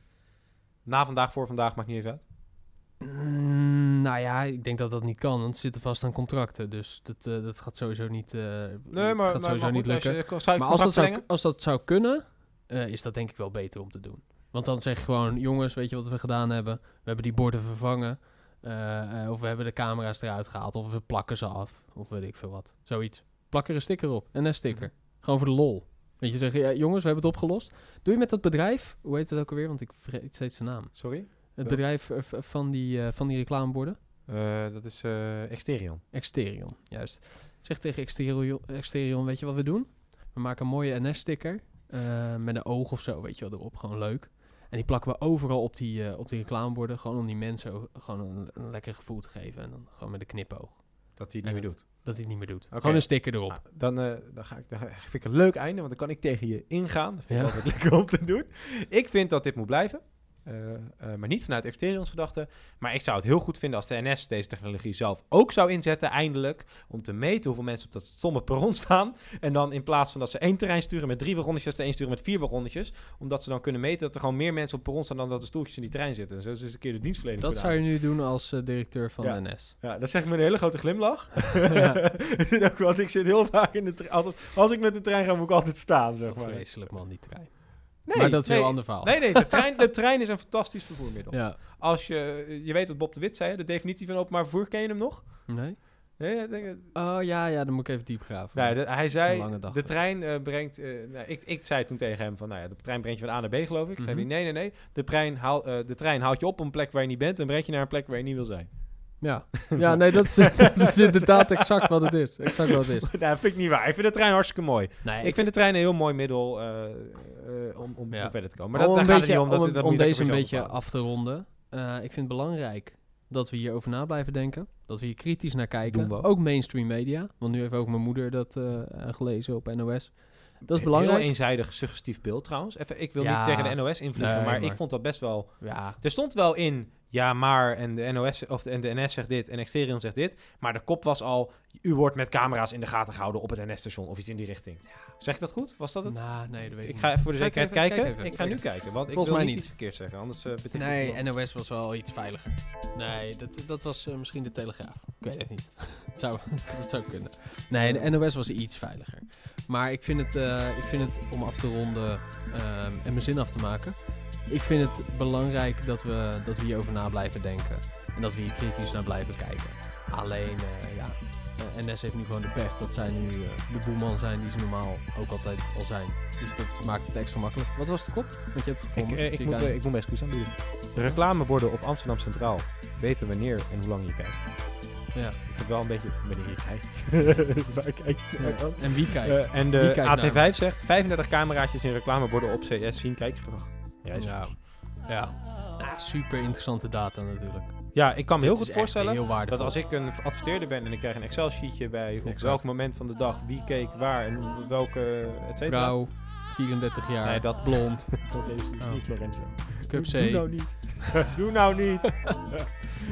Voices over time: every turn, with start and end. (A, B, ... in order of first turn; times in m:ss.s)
0:00.8-0:02.3 A
0:03.0-0:34.0 B
0:08.9-0:11.2 A
0:24.7-0:24.9 A
0:30.9-0:31.8 A
0:34.3-0:36.0 A
0:36.1-0:53.6 B
0:51.2-1:18.0 A
0:57.3-0:57.6 B
1:17.4-1:19.7 B
1:19.2-1:26.9 A
1:21.7-1:22.0 B
1:26.2-1:29.7 B
1:28.0-1:36.9 A
1:31.3-1:31.6 B
1:35.5-1:36.2 B
1:36.9-1:40.0 B
1:38.5-1:50.1 A
1:44.0-1:44.3 B
1:49.2-1:53.1 B
1:53.1-2:00.8 A
1:55.0-1:55.5 B
1:58.1-2:11.3 B
2:05.9-2:06.3 A
2:10.6-2:31.2 A
2:13.2-2:16.0 B
2:26.0-2:29.8 B
2:30.7-3:00.3 B
2:37.8-2:38.1 A
2:58.9-3:14.6 A
3:05.1-3:05.4 B
3:08.4-3:10.4 B
3:14.2-3:19.8 B
3:17.9-3:26.1 A
3:22.2-3:22.6 B
3:25.6-3:31.2 B
3:27.2-3:32.7 A